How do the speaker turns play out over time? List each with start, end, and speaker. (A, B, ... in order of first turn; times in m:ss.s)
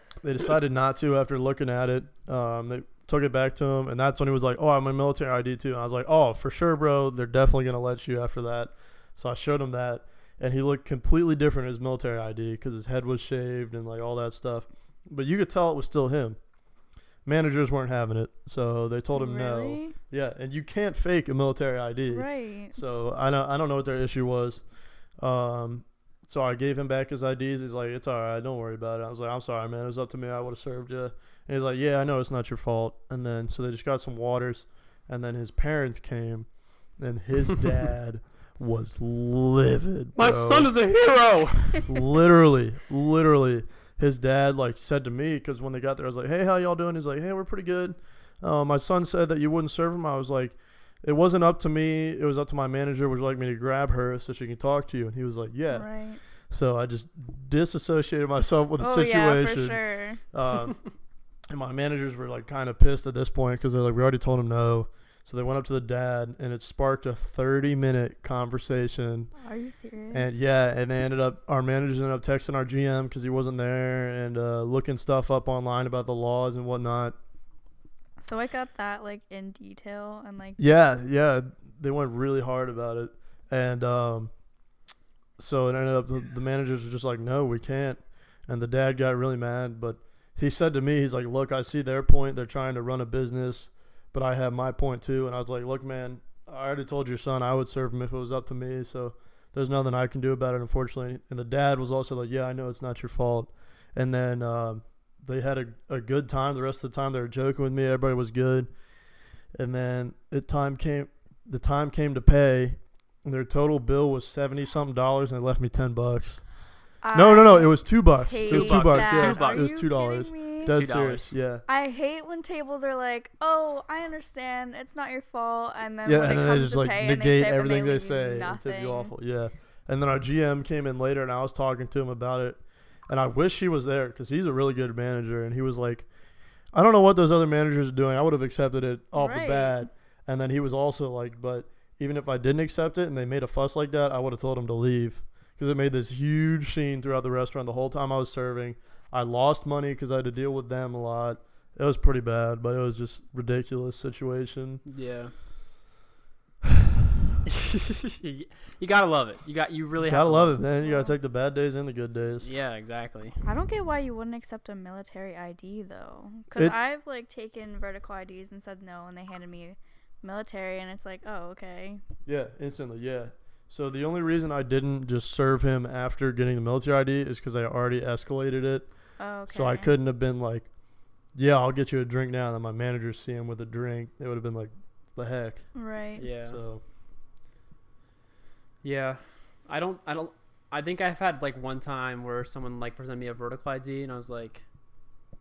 0:00.2-0:16.4 A
0:17.2-0:24.6 A
0:19.1-0:20.0 B
0:22.1-0:22.8 B
0:25.2-0:40.7 A
0:40.2-0:42.1 C
0:41.9-0:55.9 A
0:55.7-0:56.2 B
0:56.5-1:00.8 A
0:58.8-1:00.2 B
1:01.5-1:09.3 A
1:09.4-1:10.4 B
1:10.1-1:17.2 A
1:18.2-1:20.6 B
1:20.6-1:24.3 A
1:25.4-1:48.7 A
1:49.5-1:56.5 A
1:57.0-2:00.8 B
1:57.1-2:01.6 A
1:58.4-1:59.8 C
2:00.7-2:01.4 C
2:01.7-2:09.1 B
2:06.0-2:16.1 A
2:16.7-2:34.8 A
2:19.2-2:19.8 B
2:34.9-2:35.3 C
2:37.5-2:40.6 C
2:40.0-2:42.5 A
2:40.8-2:41.1 B
2:42.4-2:43.5 C
2:43.4-2:52.0 B
2:52.3-2:58.9 A
2:59.2-2:59.9 B
2:59.5-3:00.7 A
3:01.3-3:05.7 A
3:05.7-3:06.3 B
3:06.2-3:06.6 C
3:06.5-3:06.8 A
3:08.8-3:14.6 C